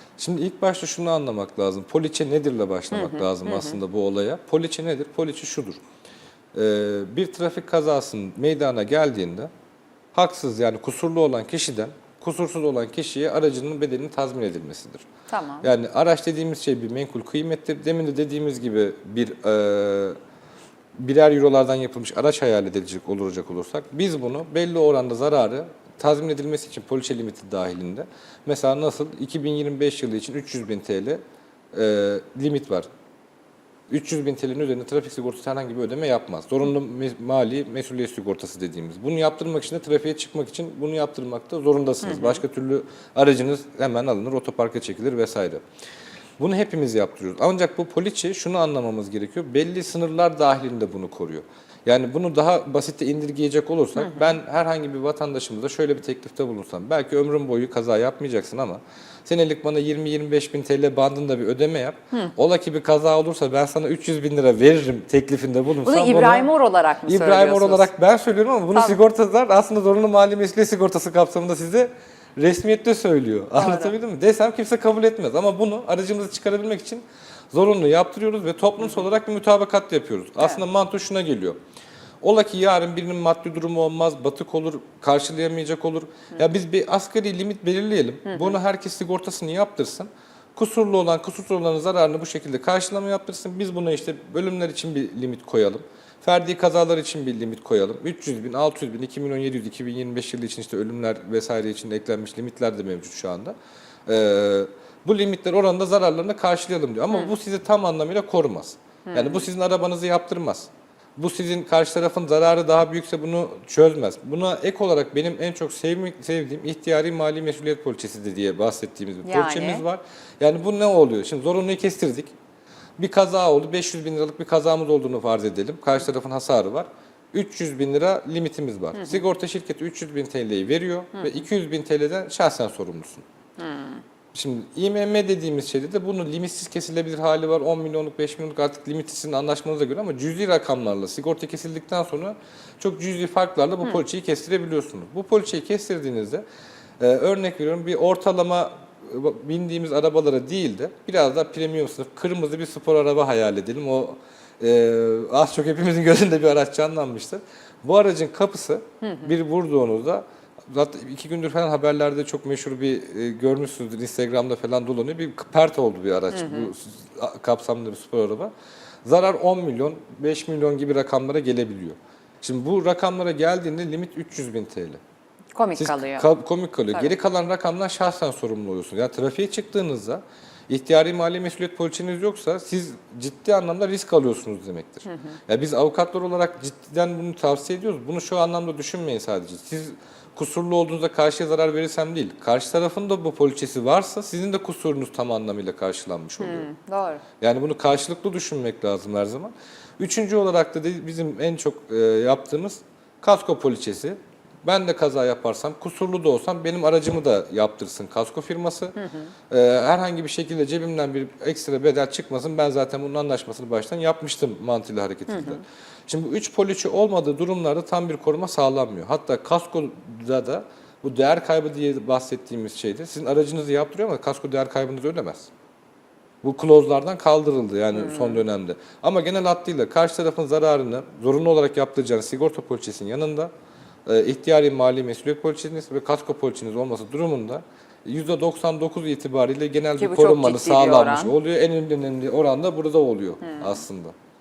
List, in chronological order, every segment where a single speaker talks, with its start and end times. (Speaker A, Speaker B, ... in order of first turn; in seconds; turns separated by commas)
Speaker A: 0.2-5.8, Speaker B: 2.9-3.8, Speaker A: 6.5-9.5, Speaker A: 10.1-15.0, Speaker B: 15.3-15.7, Speaker A: 15.6-20.2, Speaker A: 21.0-31.2, Speaker A: 31.7-32.9, Speaker A: 33.9-45.6, Speaker B: 42.0-42.4, Speaker A: 46.4-66.5, Speaker B: 54.0-54.3, Speaker B: 65.8-67.9, Speaker A: 67.0-81.6, Speaker B: 73.6-73.9, Speaker A: 82.2-122.3, Speaker B: 88.3-88.5, Speaker B: 109.1-109.5, Speaker B: 119.2-119.8, Speaker A: 123.0-133.2, Speaker B: 133.6-134.0, Speaker A: 134.3-146.4, Speaker A: 147.0-168.5, Speaker B: 166.3-166.7, Speaker A: 169.0-175.0, Speaker B: 175.5-176.2, Speaker A: 175.8-196.7, Speaker B: 185.1-185.4, Speaker B: 196.4-197.2, Speaker A: 197.4-208.9, Speaker B: 209.0-209.3, Speaker A: 209.5-225.5, Speaker B: 215.3-215.6, Speaker A: 226.4-233.5, Speaker B: 227.9-228.4, Speaker A: 234.1-244.1, Speaker B: 240.0-241.3, Speaker B: 243.4-243.8